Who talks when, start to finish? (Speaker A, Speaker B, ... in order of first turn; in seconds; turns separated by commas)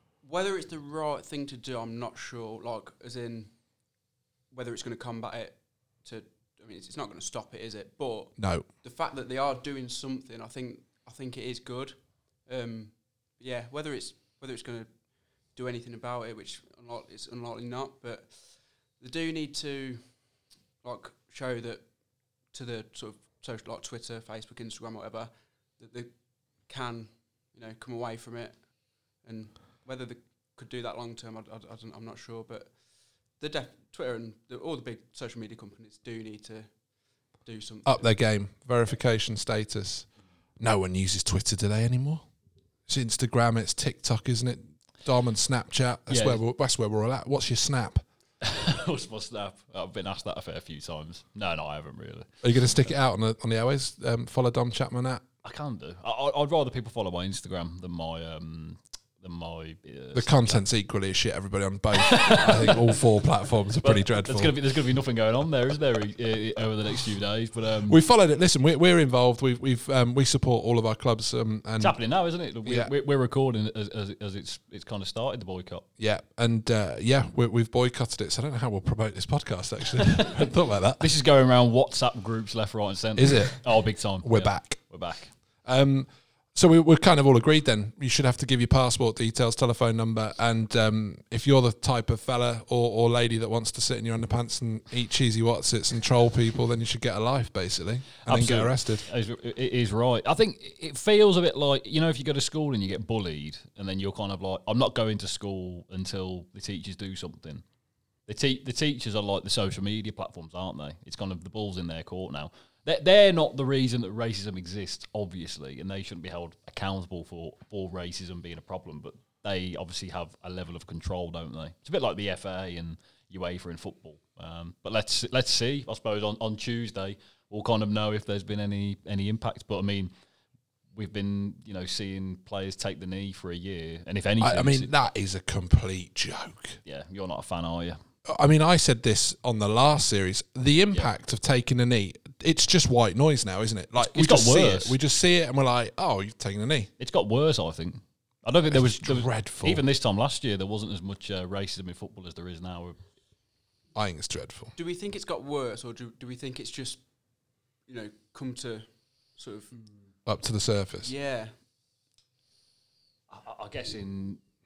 Speaker A: 0.2-3.5, Speaker A: 4.5-14.9, Speaker B: 8.4-8.6, Speaker A: 15.5-20.1, Speaker A: 20.8-21.8, Speaker A: 22.5-26.1, Speaker A: 26.6-28.7, Speaker A: 29.2-32.7, Speaker A: 33.4-36.7, Speaker A: 37.4-38.1, Speaker B: 37.9-40.0, Speaker B: 40.6-42.2, Speaker B: 42.9-48.0, Speaker C: 46.1-46.4, Speaker C: 48.4-52.9, Speaker B: 52.4-55.2, Speaker C: 55.4-60.6, Speaker B: 60.1-64.5, Speaker C: 62.0-63.0, Speaker C: 63.8-68.0, Speaker B: 67.9-72.0, Speaker C: 71.8-75.8, Speaker B: 72.7-72.9, Speaker B: 76.0-81.0, Speaker C: 81.0-85.3, Speaker B: 83.2-83.6, Speaker B: 84.2-84.8, Speaker B: 85.6-99.0, Speaker C: 98.2-107.6, Speaker C: 108.3-130.1, Speaker C: 130.9-134.9, Speaker B: 134.4-136.8, Speaker C: 136.8-138.0, Speaker B: 138.3-146.9, Speaker C: 144.0-144.9, Speaker C: 147.0-153.0, Speaker B: 148.7-149.8, Speaker B: 153.9-154.7, Speaker A: 154.8-157.0, Speaker A: 157.9-159.7, Speaker B: 160.2-161.1, Speaker A: 161.0-161.5, Speaker C: 163.3-164.4